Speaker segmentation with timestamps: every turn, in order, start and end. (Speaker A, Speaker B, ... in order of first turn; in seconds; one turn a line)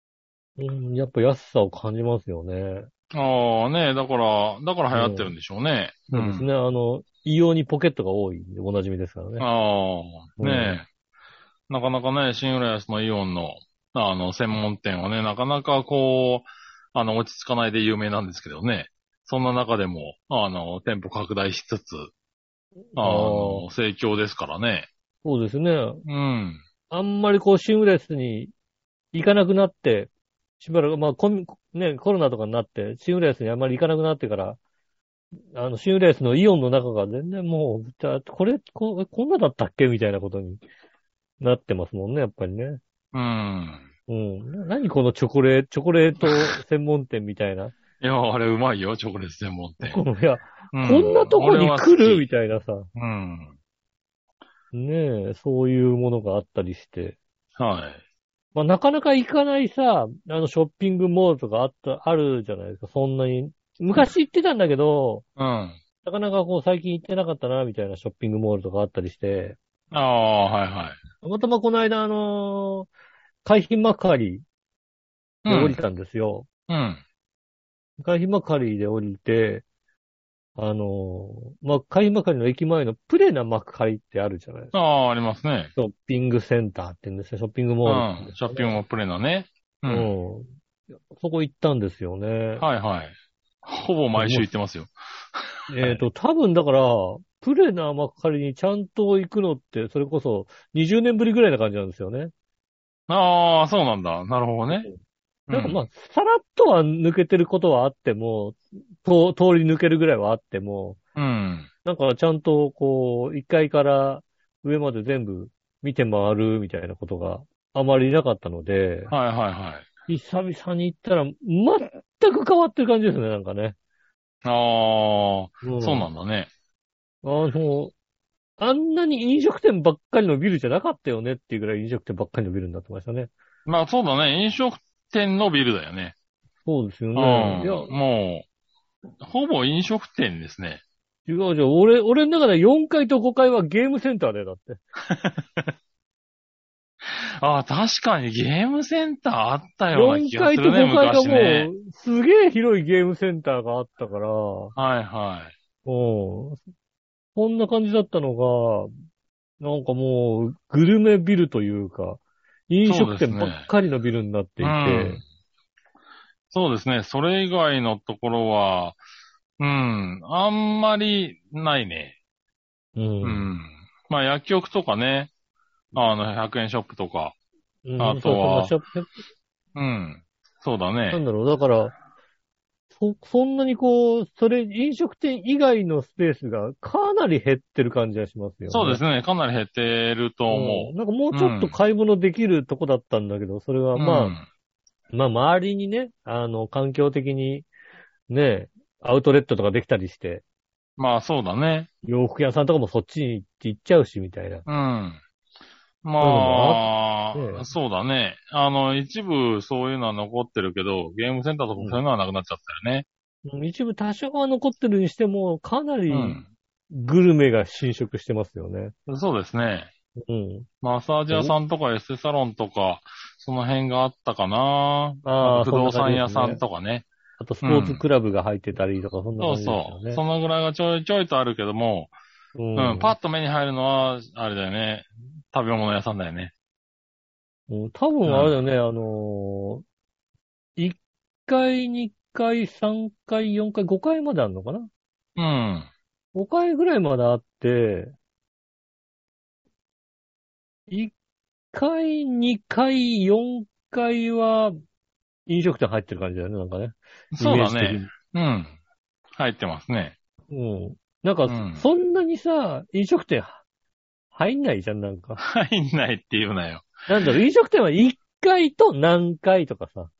Speaker A: 0.6-2.9
Speaker B: 3.1-6.5
Speaker A: 4.9-5.3
Speaker A: 6.1-9.5
Speaker B: 9.4-10.9
Speaker A: 10.4-10.8
Speaker B: 11.7-22.1
Speaker A: 23.0-23.7
Speaker B: 23.0-24.9
Speaker A: 25.2-26.0
Speaker B: 26.1-26.6
Speaker A: 26.9-28.5
Speaker A: 29.1-34.6
Speaker A: 35.5-40.6
Speaker A: 41.4-42.8
Speaker B: 43.1-43.9
Speaker A: 44.1-47.7
Speaker B: 46.3-46.6
Speaker B: 48.0-50.0
Speaker A: 49.8-52.9
Speaker B: 50.7-52.2
Speaker B: 53.0-53.5
Speaker A: 54.7-57.2
Speaker B: 57.6-58.0
Speaker A: 58.5-65.2
Speaker B: 65.4-65.8
Speaker A: 66.0-69.6
Speaker B: 69.9-71.0
Speaker A: 71.2-72.9
Speaker A: 73.4-74.4
Speaker B: 75.5-75.8
Speaker A: 75.5-76.5
Speaker B: 76.7-77.0
Speaker A: 78.0-79.6
Speaker A: 80.6-84.7
Speaker B: 84.7-85.7
Speaker A: 85.8-88.8
Speaker B: 87.8-90.1
Speaker A: 89.9-92.7
Speaker B: 92.6-96.0
Speaker A: 94.2-94.5
Speaker A: 95.7-102.3
Speaker B: 103.1-104.9
Speaker A: 104.7-105.0
Speaker B: 105.5-105.8
Speaker A: 105.5-111.0
Speaker B: 111.2-111.7
Speaker A: 111.8-119.1
Speaker B: 119.1-119.9
Speaker A: 120.1-123.8
Speaker B: 124.5-126.5
Speaker A: 125.6-126.1
Speaker A: 127.2-127.9
Speaker A: 128.6-133.3
Speaker B: 133.7-136.2
Speaker A: 136.7-137.9
Speaker B: 137.2-138.5
Speaker B: 139.2-140.8
Speaker A: 141.3-144.8
Speaker B: 145.1-145.7
Speaker B: 147.0-151.7
Speaker A: 149.9-154.8
Speaker B: 154.8-155.5
Speaker A: 155.8-156.6
Speaker A: 157.3-158.9
Speaker A: 159.6-165.2
Speaker B: 162.9-163.7
Speaker B: 164.6-165.2
Speaker B: 166.5-169.0
Speaker B: 169.6-172.2
Speaker A: 173.0-173.5
Speaker B: 173.2-175.3
Speaker B: 175.9-177.4
Speaker A: 177.8-179.2
Speaker B: 178.0-178.8
Speaker B: 179.8-181.2
Speaker A: 181.1-181.9
Speaker A: 182.9-189.0
Speaker B: 188.7-191.8
Speaker A: 190.5-194.4
Speaker B: 193.9-194.5
Speaker A: 195.1-197.7
Speaker A: 198.3-200.4
Speaker B: 201.0-201.9
Speaker A: 202.0-204.7
Speaker B: 204.7-205.2
Speaker B: 206.0-213.1
Speaker A: 206.2-207.7
Speaker A: 211.8-212.0
Speaker A: 213.4-218.9
Speaker B: 216.1-216.5
Speaker B: 219.1-219.9
Speaker A: 220.2-220.7
Speaker B: 220.8-227.1
Speaker A: 221.3-221.6
Speaker A: 225.2-226.6
Speaker A: 227.4-230.2
Speaker B: 227.6-228.1
Speaker B: 229.4-232.1
Speaker A: 232.6-233.2
Speaker B: 232.8-236.5
Speaker A: 237.7-239.8
Speaker B: 238.2-238.6
Speaker A: 240.8-244.9
Speaker B: 245.4-245.9
Speaker A: 246.3-248.1
Speaker A: 251.7-254.8
Speaker A: 255.5-258.1
Speaker B: 257.3-258.7
Speaker B: 259.4-260.1
Speaker A: 260.5-263.6
Speaker B: 261.5-261.9
Speaker A: 264.3-265.4
Speaker B: 265.4-267.0
Speaker A: 267.1-270.1